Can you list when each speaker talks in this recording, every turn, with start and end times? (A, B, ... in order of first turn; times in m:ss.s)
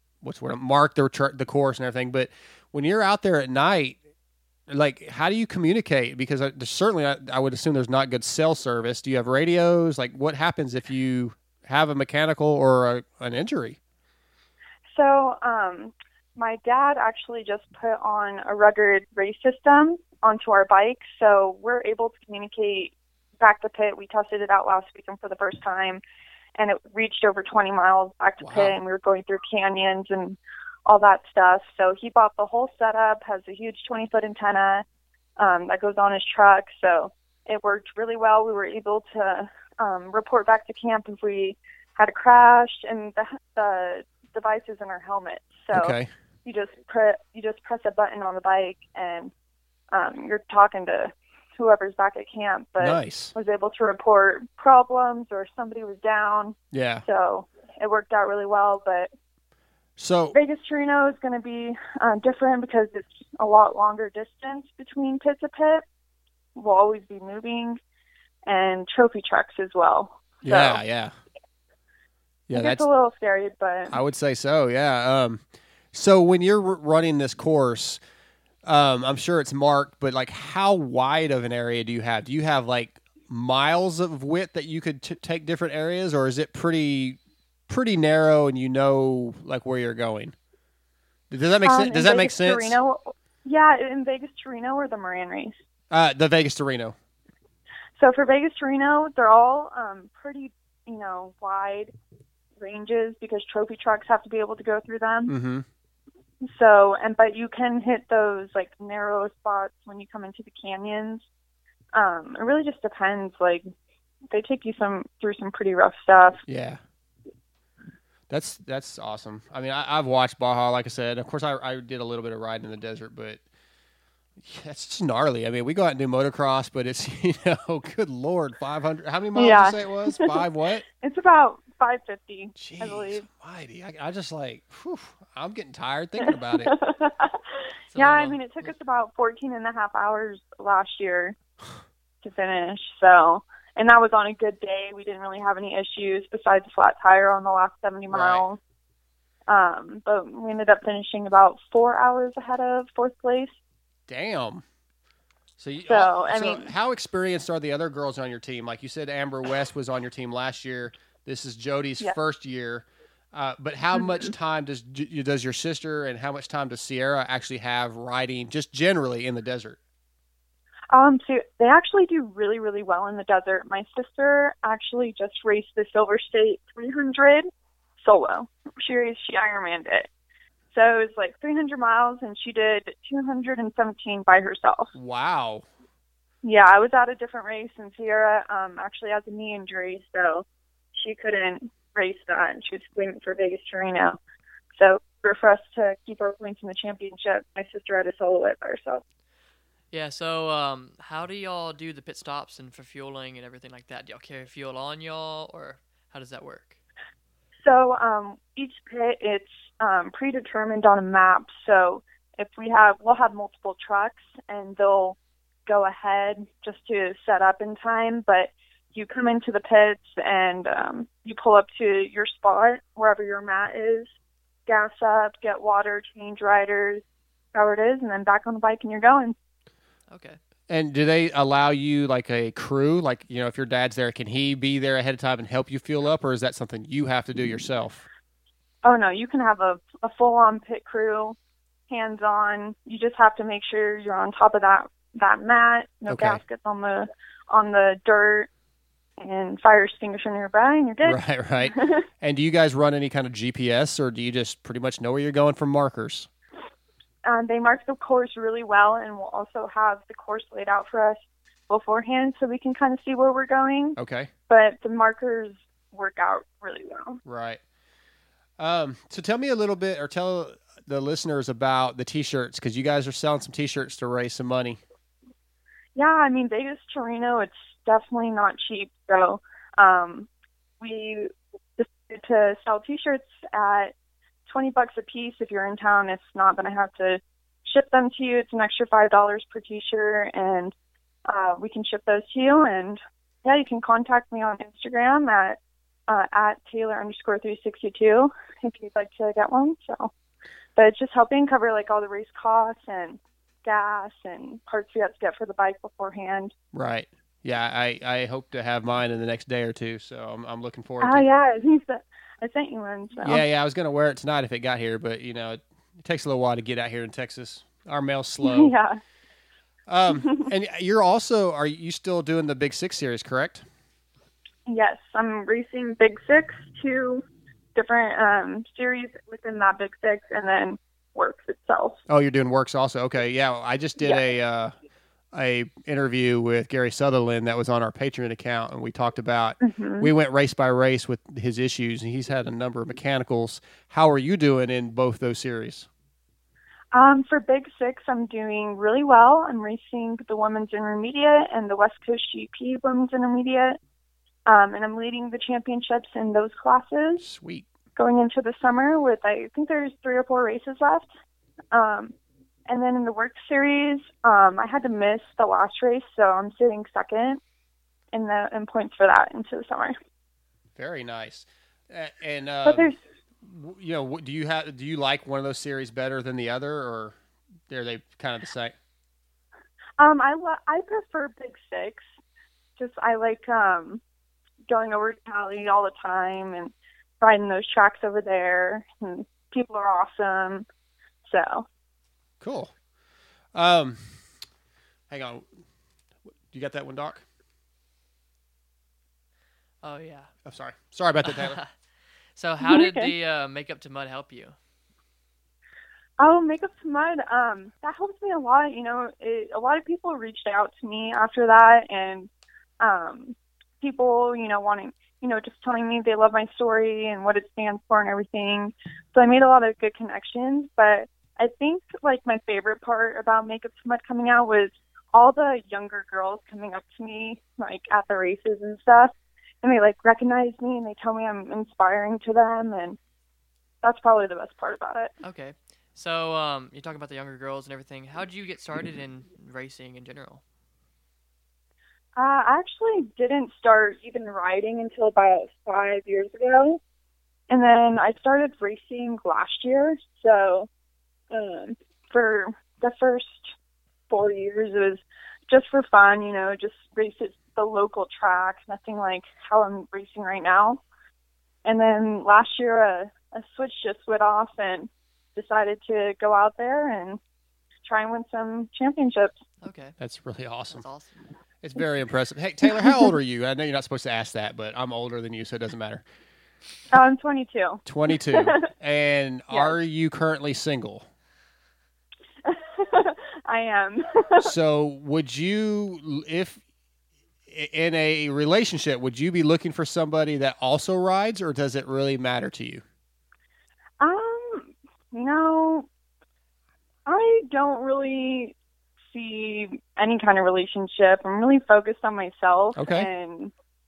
0:00.2-0:04.0 A
0:04.7-0:13.8 A
0:14.9-0:26.0 B
0:26.6-0:34.8 B
0:28.4-0:28.8 A
0:35.4-0:49.3 B
0:45.7-0:46.1 A
0:49.9-0:59.1 B
0:52.8-0:53.3 A
0:56.7-0:57.0 A
1:00.0-1:00.4 A
1:00.3-1:05.8 B
1:06.6-1:07.8 B
1:08.5-1:10.8 B
1:10.4-1:11.1 A
1:12.5-1:12.9 A
1:12.5-1:14.0 B
1:13.9-1:18.0 A
1:18.6-1:30.4 A
1:31.3-1:32.8 A
1:31.6-1:35.6 B
1:35.9-1:37.0 A
1:38.0-1:41.9 B
1:42.6-1:45.3 B
1:45.3-1:45.7 A
1:46.4-1:51.3 B
1:52.0-1:53.7 B
1:54.3-1:56.4 B
1:56.5-1:56.8 A
1:58.3-2:03.4 A
2:04.4-2:10.8 A
2:09.4-2:10.4 B
2:11.0-2:13.2 B
2:12.6-2:16.8 A
2:16.2-2:17.4 B
2:17.9-2:18.4 C
2:18.0-2:21.4 B
2:22.2-2:28.6 B
2:28.1-2:28.4 A
2:29.5-2:33.6 B
2:34.1-2:34.6 A
2:35.6-2:49.8 A
2:35.9-2:36.7 B
2:44.0-2:44.2 B
2:50.9-2:57.5 B
2:58.0-3:00.1 B
3:00.7-3:04.9 B
3:04.9-3:05.7 A
3:06.4-3:14.2 B
3:14.8-3:19.0 B
3:19.9-3:26.8 C
3:27.6-3:44.1 B
3:44.7-3:47.0 B
3:47.5-3:49.4 B
3:50.1-3:50.4 C
3:50.7-3:58.0 A
3:58.8-4:01.4 B
4:01.9-4:08.5 B
4:06.1-4:06.4 A
4:09.2-4:12.0 B
4:11.0-4:16.3 A
4:17.2-4:24.0 B
4:24.0-4:24.3 A
4:24.5-4:27.2 B
4:27.2-4:27.6 A
4:28.6-4:34.8 A
4:36.0-4:40.3 B
4:40.8-4:43.9 B
4:44.5-4:50.7 B
4:51.3-5:00.1 B
5:00.8-5:06.5 B
5:06.7-5:11.3 A
5:11.0-5:13.4 B
5:13.2-5:18.7 A
5:18.4-5:19.0 B
5:19.9-5:23.6 A
5:20.1-5:20.5 B
5:24.7-5:27.2 B
5:27.8-5:32.0 B
5:32.1-5:34.7 A
5:35.3-5:45.9 A
5:39.6-5:40.1 B
5:46.9-5:53.8 B
5:54.5-5:57.2 B
5:57.2-5:57.7 A
5:58.0-6:01.1 B
6:01.7-6:02.1 B
6:02.7-6:07.4 B
6:08.1-6:10.0 B
6:10.8-6:17.2 A
6:12.6-6:13.0 B
6:17.7-6:18.8 A
6:20.0-6:22.1 B
6:22.8-6:24.0 B
6:24.7-6:30.6 B
6:31.3-6:31.7 B
6:32.4-6:32.7 A
6:33.5-6:34.2 A
6:35.1-6:35.5 A
6:36.5-6:37.2 A
6:39.8-6:40.3 C
6:40.4-6:41.6 A
6:41.2-6:44.6 C
6:42.6-6:43.1 B
6:46.2-6:52.3 B
6:52.8-7:13.0 B
7:13.8-7:15.1 B
7:15.2-7:20.4 C
7:22.2-7:26.8 B
7:27.5-7:30.7 B
7:31.3-7:33.5 B
7:34.1-7:40.8 B
7:41.6-7:47.2 B
7:47.9-7:49.4 B
7:49.6-7:50.0 C
7:50.0-7:50.9 A
7:50.7-7:51.2 C
7:51.6-7:56.0 A
7:56.9-7:58.7 B
7:57.8-8:01.1 A
7:59.5-7:59.8 B
8:02.5-8:04.5 B
8:04.4-8:06.6 A
8:07.5-8:12.8 A
8:14.0-8:15.9 B
8:17.1-8:18.6 B
8:19.1-8:23.5 B
8:22.8-8:23.1 A